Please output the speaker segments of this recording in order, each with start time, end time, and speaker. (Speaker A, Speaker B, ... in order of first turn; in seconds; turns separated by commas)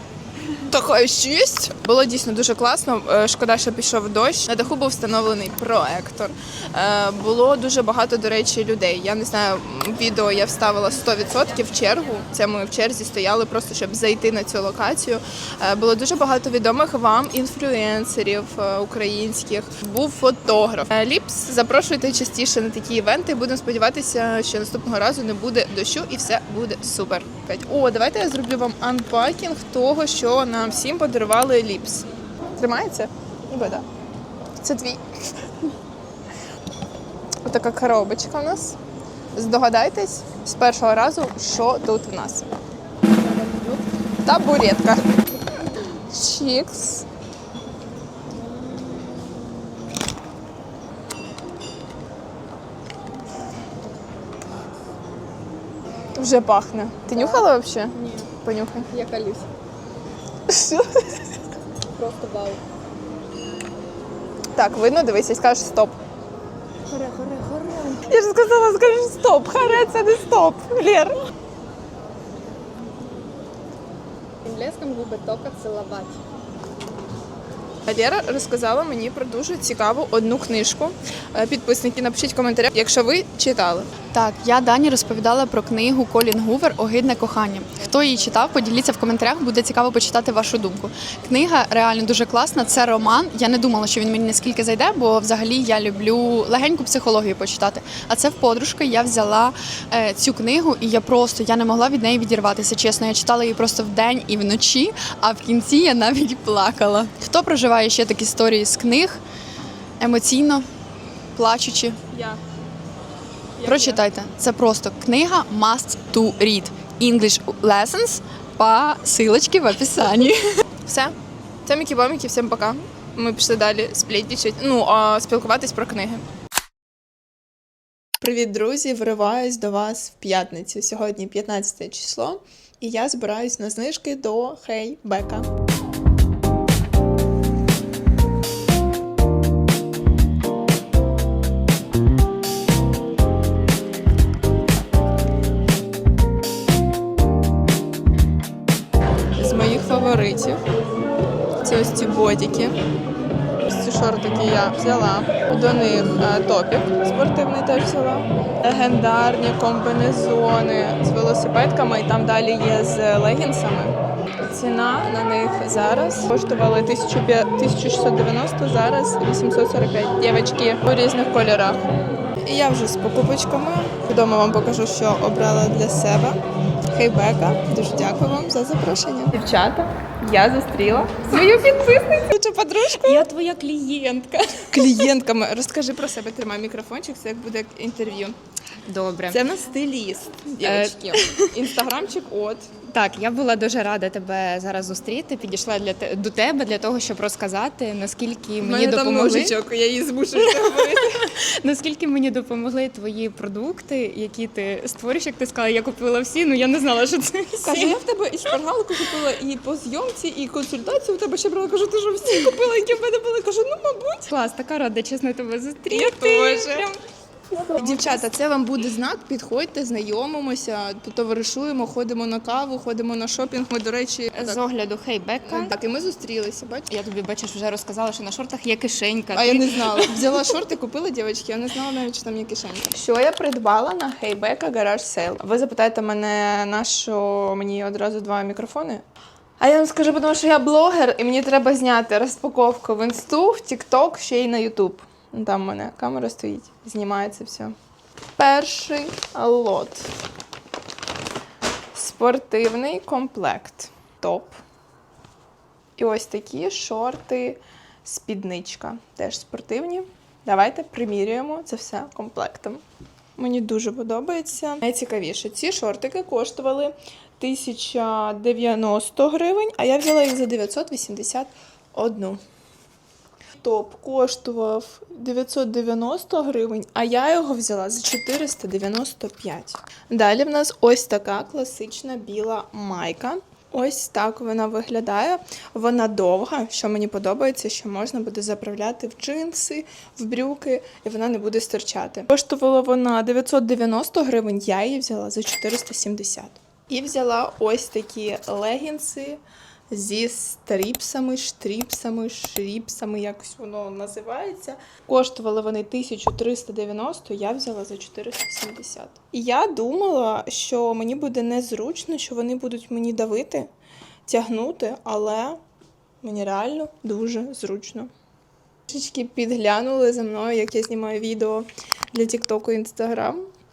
Speaker A: 0.7-33.9, Speaker A: 34.6-35.0, Speaker A: 37.4-38.8, Speaker A: 39.3-42.5, Speaker B: 43.1-43.8, Speaker A: 44.2-45.0, Speaker A: 46.1-47.0, Speaker B: 48.3-49.6, Speaker A: 56.1-58.9, Speaker B: 57.1-58.3, Speaker B: 58.9-59.5, Speaker A: 60.5-61.1, Speaker B: 61.9-62.6, Speaker A: 64.5-66.0, Speaker B: 66.9-68.1, Speaker A: 68.1-71.2, Speaker B: 74.4-76.2, Speaker A: 77.8-83.9, Speaker C: 84.1-109.2, Speaker C: 110.0-110.6, Speaker C: 111.3-112.0, Speaker A: 112.1-112.4, Speaker A: 113.6-114.0, Speaker C: 113.6-120.4, Speaker A: 120.8-121.1, Speaker A: 121.6-126.2, Speaker A: 128.2-135.5, Speaker A: 149.3-150.6, Speaker A: 151.6-152.8, Speaker A: 153.6-171.8, Speaker A: 172.4-183.3, Speaker B: 183.0-184.8, Speaker A: 184.7-188.3, Speaker B: 188.8-189.4, Speaker A: 189.3-192.7, Speaker B: 190.6-191.5, Speaker B: 192.9-199.5, Speaker A: 198.6-201.3, Speaker B: 200.4-208.0, Speaker A: 207.6-214.3, Speaker B: 214.3-216.9, Speaker A: 215.9-217.0, Speaker B: 217.5-218.2, Speaker A: 217.8-224.6, Speaker B: 224.3-225.7, Speaker A: 225.4-226.9, Speaker B: 226.9-230.4, Speaker A: 229.3-239.0, Speaker A: 239.6-247.7, Speaker A: 248.4-250.1, Speaker A: 251.9-254.6, Speaker A: 256.0-262.8, Speaker A: 263.4-272.4, Speaker A: 273.6-313.7, Speaker A: 314.3-315.6, Speaker A: 316.2-318.1, Speaker A: 318.9-323.5